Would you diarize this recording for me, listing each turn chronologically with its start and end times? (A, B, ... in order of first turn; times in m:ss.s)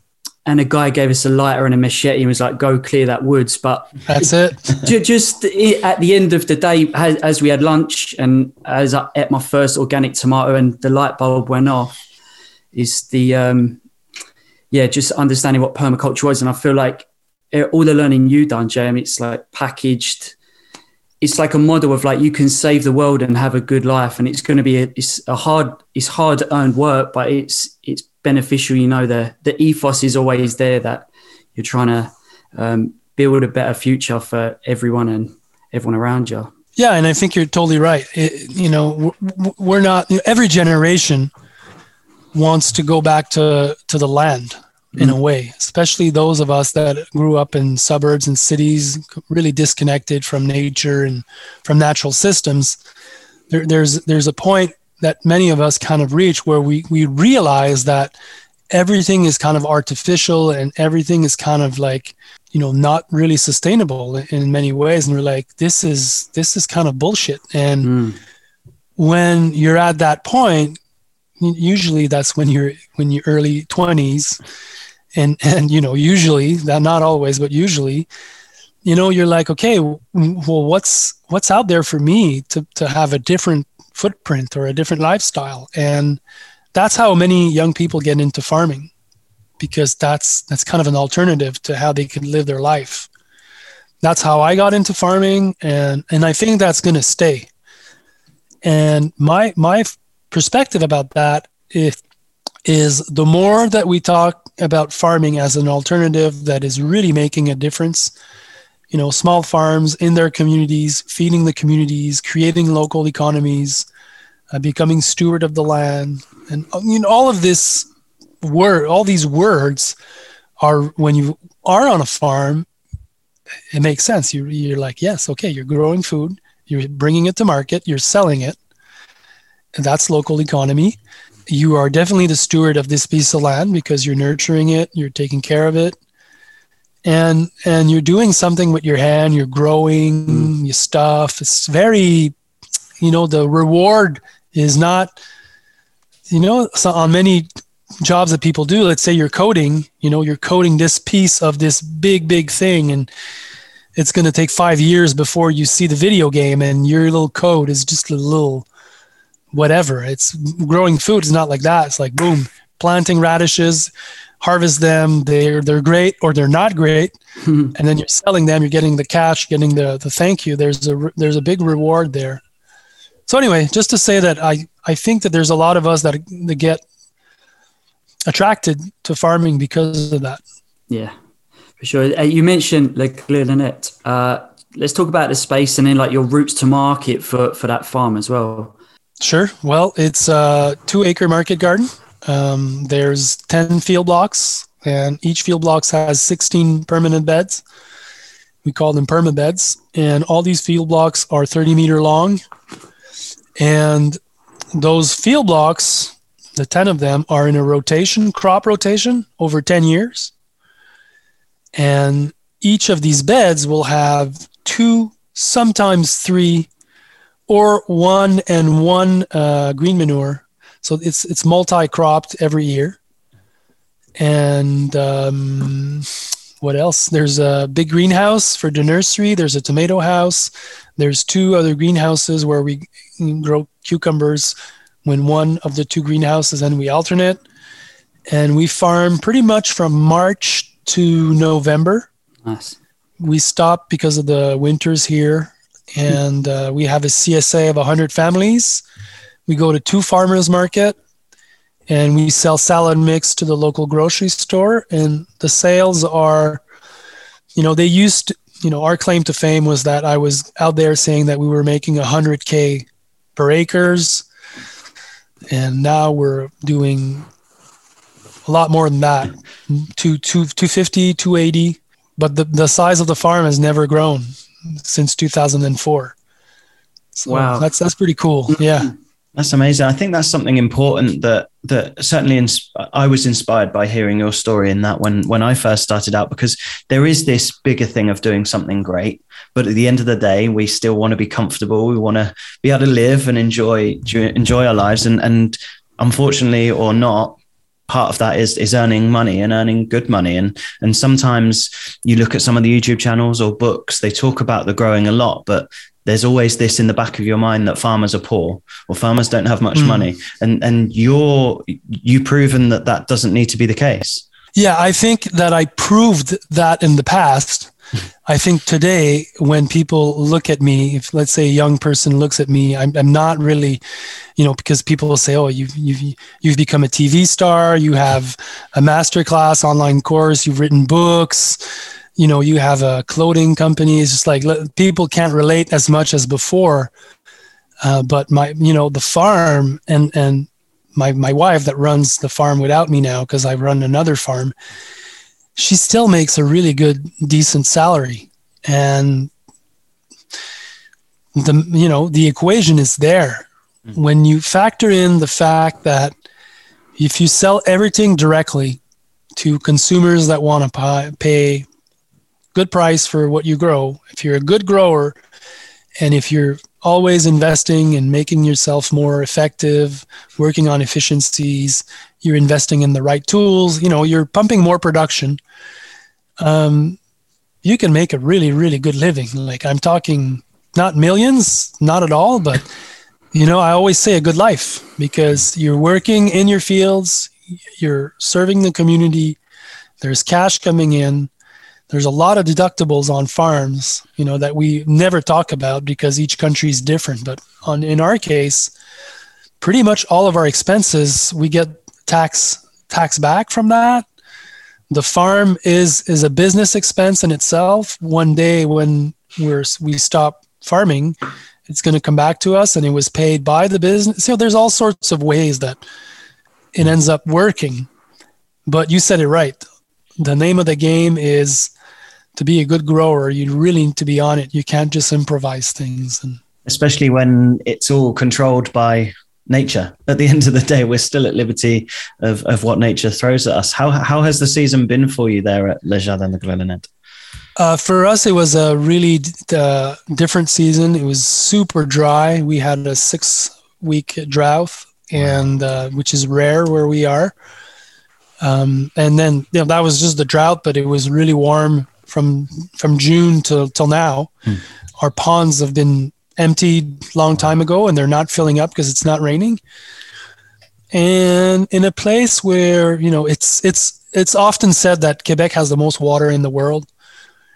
0:00.4-0:11.9 A
0:04.1-0:04.7 B
0:12.7-0:13.8 A
0:14.7-0:20.3 A
0:21.2-0:36.5 A
0:36.8-0:41.3 B
0:42.3-0:52.8 B
0:53.5-0:58.1 B
0:58.7-1:07.9 B
1:07.8-1:08.2 A
1:09.0-1:10.8 B
1:11.4-1:14.4 B
1:15.2-1:18.1 B
1:18.8-1:26.2 B
1:26.7-1:28.9 B
1:29.6-1:33.1 B
1:34.0-1:37.5 B
1:38.6-1:42.0 B
1:42.6-1:48.1 B
1:48.9-1:53.9 B
1:54.5-1:57.9 B
1:58.4-2:00.0 B
2:00.6-2:02.7 B
2:03.7-2:08.6 B
2:09.7-2:16.0 B
2:17.0-2:22.3 B
2:23.0-2:25.1 B
2:26.3-2:27.5 B
2:28.0-2:33.1 B
2:33.9-2:38.6 B
2:39.5-2:47.1 B
2:47.4-2:47.7 A
2:47.7-2:52.4 B
2:53.3-2:56.8 B
2:58.3-3:00.4 B
3:00.9-3:01.1 A
3:01.8-3:08.7 A
3:09.2-3:17.6 B
3:18.6-3:22.4 B
3:23.6-3:24.2 B
3:24.7-3:30.3 B
3:31.7-3:36.7 B
3:37.5-3:43.0 B
3:44.2-3:46.1 B
3:46.6-3:57.4 B
3:58.3-4:02.1 B
4:02.4-4:02.8 A
4:03.2-4:08.8 B
4:09.5-4:11.0 B
4:11.9-4:16.6 B
4:17.5-4:24.2 B
4:25.5-4:27.3 B
4:28.4-4:36.1 B
4:37.1-4:38.9 B
4:37.3-4:37.7 A
4:39.4-5:14.2 C
5:09.7-5:10.0 B
5:14.6-5:17.7 B
5:18.2-5:23.8 B
5:24.4-5:31.6 B
5:32.2-5:36.9 B
5:37.8-5:44.5 B
5:45.6-5:49.3 B
5:51.3-5:56.1 B
5:57.0-5:58.8 B
5:59.4-6:01.7 B
6:02.5-6:05.2 B
6:06.0-6:15.4 B
6:16.4-6:17.0 B
6:17.6-6:22.7 B
6:23.3-6:29.4 B
6:30.0-6:31.3 B
6:31.9-6:38.7 B
6:39.6-6:44.0 B
6:44.9-6:51.2 B
6:51.7-6:55.8 B
6:56.7-6:57.9 B
6:58.7-6:59.6 B
7:00.2-7:01.7 B
7:02.3-7:06.4 B
7:06.6-7:16.9 C
7:17.6-7:27.3 B
7:28.4-7:34.3 B
7:35.0-7:39.6 B
7:40.9-7:46.9 B